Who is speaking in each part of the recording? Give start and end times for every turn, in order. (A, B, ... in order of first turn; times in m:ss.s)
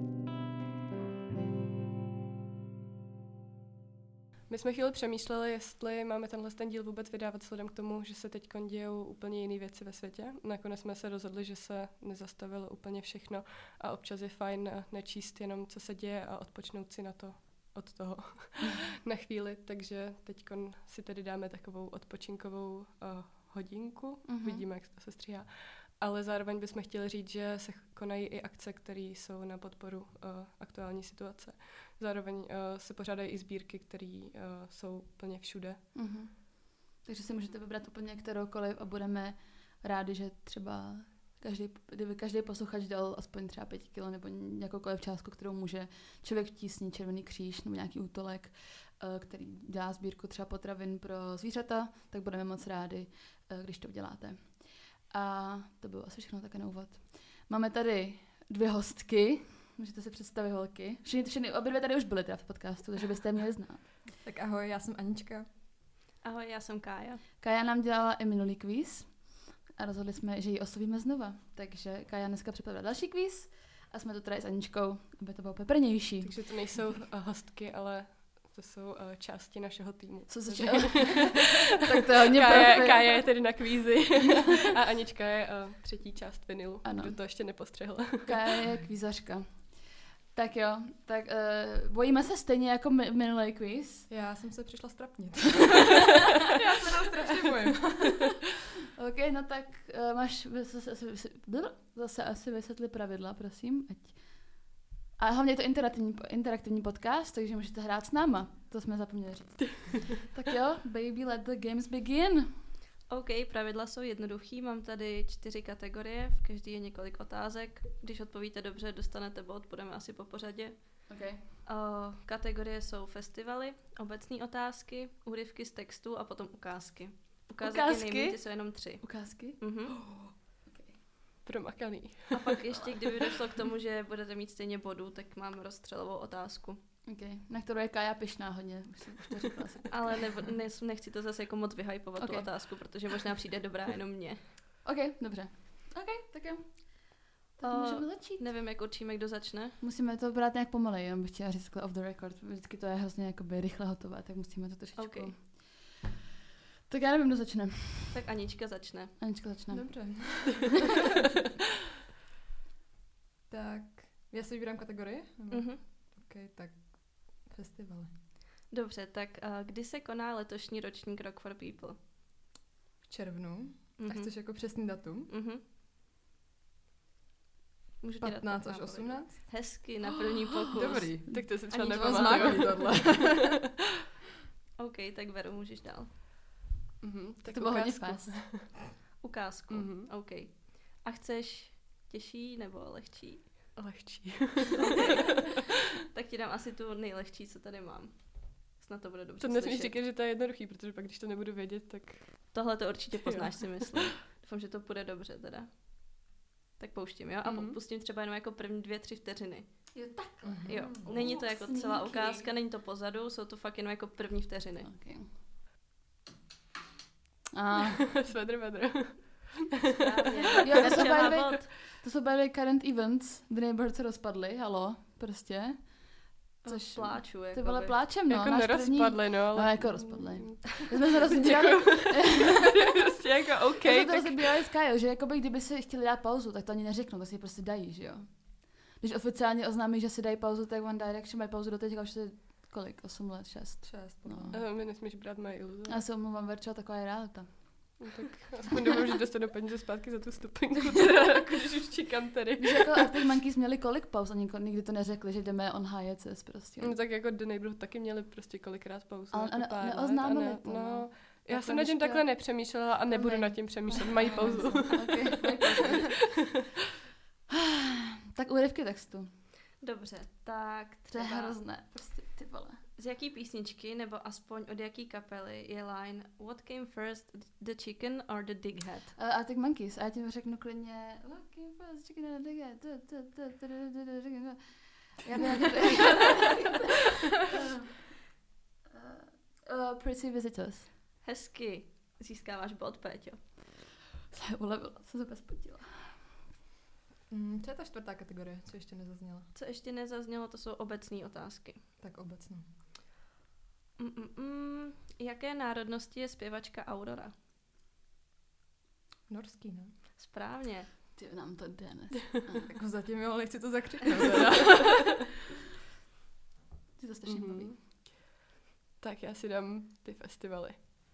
0:04.5-0:35.8 A
0:24.2-0:24.6 B
0:35.9-1:04.0 B
1:04.2-1:05.4 C
1:06.2-1:07.2 D
1:07.4-1:16.4 B
1:16.2-1:21.6 A
1:20.3-1:23.4 B
1:22.3-1:28.4 A
1:26.8-1:27.5 B
1:28.2-1:34.1 B
1:34.1-1:38.2 C
1:39.0-1:44.6 B
1:45.2-1:52.6 B
1:53.1-2:10.0 D
2:01.1-2:01.5 B
2:07.6-2:11.0 B
2:11.4-2:12.5 A
2:12.3-2:16.8 D
2:12.7-2:13.0 B
2:17.0-2:20.4 B
2:19.9-2:24.4 D
2:22.2-2:22.5 B
2:24.8-2:28.5 B
2:27.6-2:29.8 D
2:29.8-2:36.0 B
2:35.0-2:35.3 D
2:36.9-2:38.2 B
2:38.1-2:39.3 D
2:39.2-2:40.5 B
2:39.7-2:40.9 C
2:43.5-2:48.1 C
2:45.5-2:45.8 D
2:48.7-2:52.0 D
2:53.0-2:55.3 C
2:54.0-2:54.5 D
2:55.3-2:55.6 D
2:58.0-3:03.1 D
2:58.2-3:03.6 C
3:01.3-3:03.3 A
3:04.8-3:06.2 D
3:07.0-3:08.8 A
3:07.5-3:08.4 B
3:09.2-3:13.8 D
3:09.7-3:10.1 A
3:13.8-3:15.2 A
3:14.7-3:19.9 D
3:19.4-3:22.5 A
3:22.5-3:30.0 D
3:23.1-3:23.9 A
3:27.4-3:27.8 A
3:29.9-3:32.5 B
3:30.4-3:31.2 C
3:30.6-3:34.9 D
3:34.8-3:35.3 B
3:37.5-3:38.0 B
3:37.9-3:41.3 A
3:39.9-3:41.6 D
3:40.6-3:53.0 B
3:46.6-3:48.0 D
3:48.3-3:54.6 A
3:53.8-4:04.7 B
4:03.8-4:04.6 C
4:04.5-4:06.0 A
4:05.9-4:08.1 B
4:08.0-4:13.0 A
4:12.6-4:17.0 B
4:16.8-4:26.4 A
4:19.3-4:26.4 B
4:27.5-4:29.3 B
4:29.8-4:31.6 D
4:31.1-4:32.8 B
4:33.0-4:39.1 D
4:39.2-4:48.1 B
4:45.8-4:46.0 C
4:48.9-4:50.9 B
4:51.2-4:53.4 D
4:54.3-4:56.2 B
4:57.3-4:59.5 C
4:59.5-5:01.8 D
5:02.0-5:02.6 C
5:04.0-5:07.3 D
5:09.3-5:09.9 C
5:10.1-5:10.9 D
5:11.1-5:12.7 B
5:12.7-5:15.3 C
5:17.0-5:17.7 B
5:17.3-5:18.0 A
5:19.0-5:20.8 A